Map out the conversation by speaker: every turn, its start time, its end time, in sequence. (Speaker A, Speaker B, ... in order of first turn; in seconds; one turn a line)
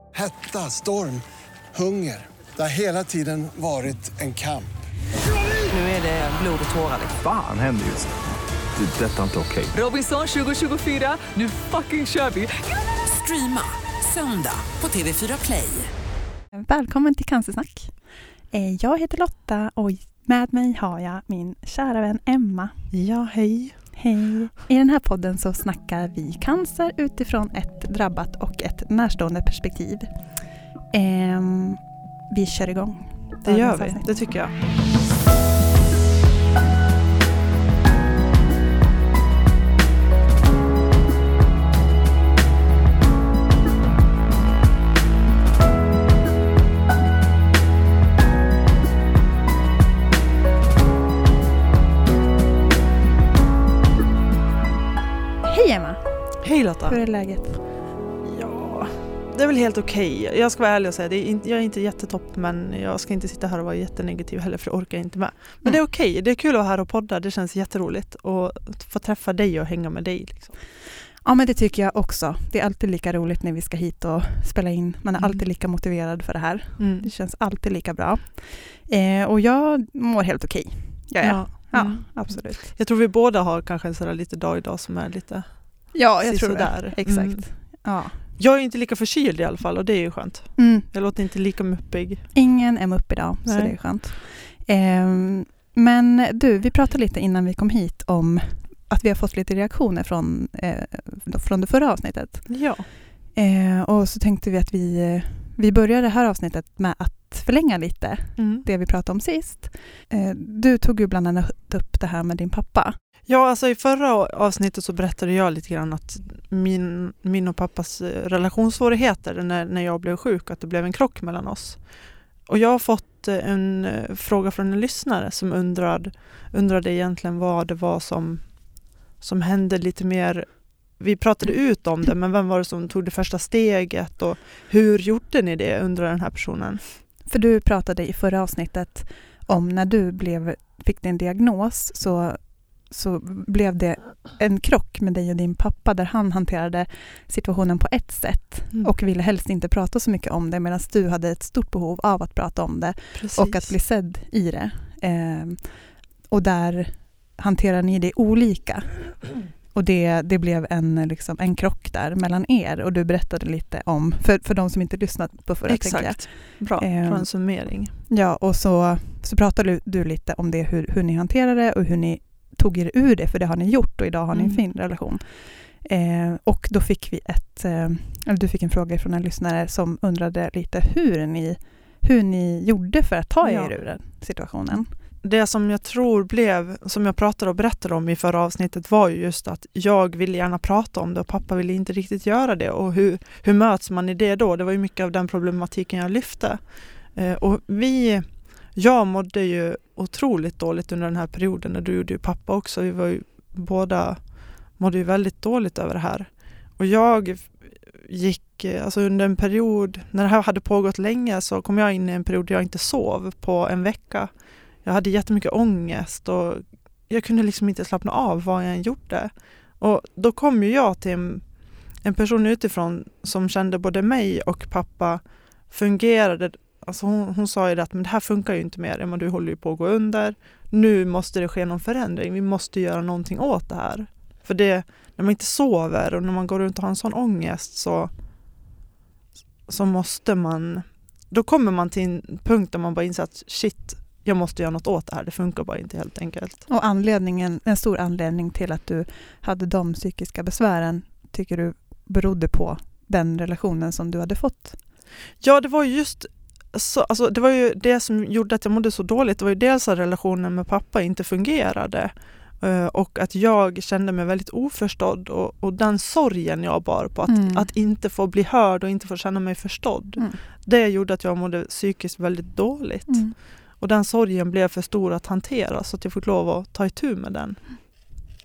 Speaker A: 0.1-4.7
Speaker B: 5.7-7.2
Speaker C: 7.2-8.1
Speaker C: 8.7-9.7
Speaker B: 9.7-15.9
Speaker D: 16.5-22.8
Speaker E: 22.9-23.9
Speaker D: 23.9-30.2
Speaker D: 30.9-34.1
Speaker E: 33.5-34.6
Speaker D: 55.4-57.6
Speaker E: 56.4-57.0
Speaker E: 58.2-70.5
Speaker D: 71.2-82.7
Speaker E: 75.2-75.4
Speaker E: 76.8-77.1
Speaker E: 81.2-87.4
Speaker D: 85.9-88.2
Speaker E: 88.4-92.5
Speaker D: 90.6-90.8
Speaker D: 92.3-102.8
Speaker E: 93.4-93.8
Speaker E: 102.5-102.8
Speaker D: 103.3-113.0
Speaker E: 108.4-108.7
Speaker E: 113.3-136.8
Speaker D: 137.2-184.9
Speaker E: 153.1-153.7
Speaker E: 165.7-167.9
Speaker E: 174.3-174.6
Speaker E: 183.4-183.7
Speaker E: 184.7-238.1
Speaker E: 239.7-246.6
Speaker D: 246.7-254.8
Speaker E: 255.4-278.0
Speaker D: 267.2-267.7
Speaker D: 273.1-273.3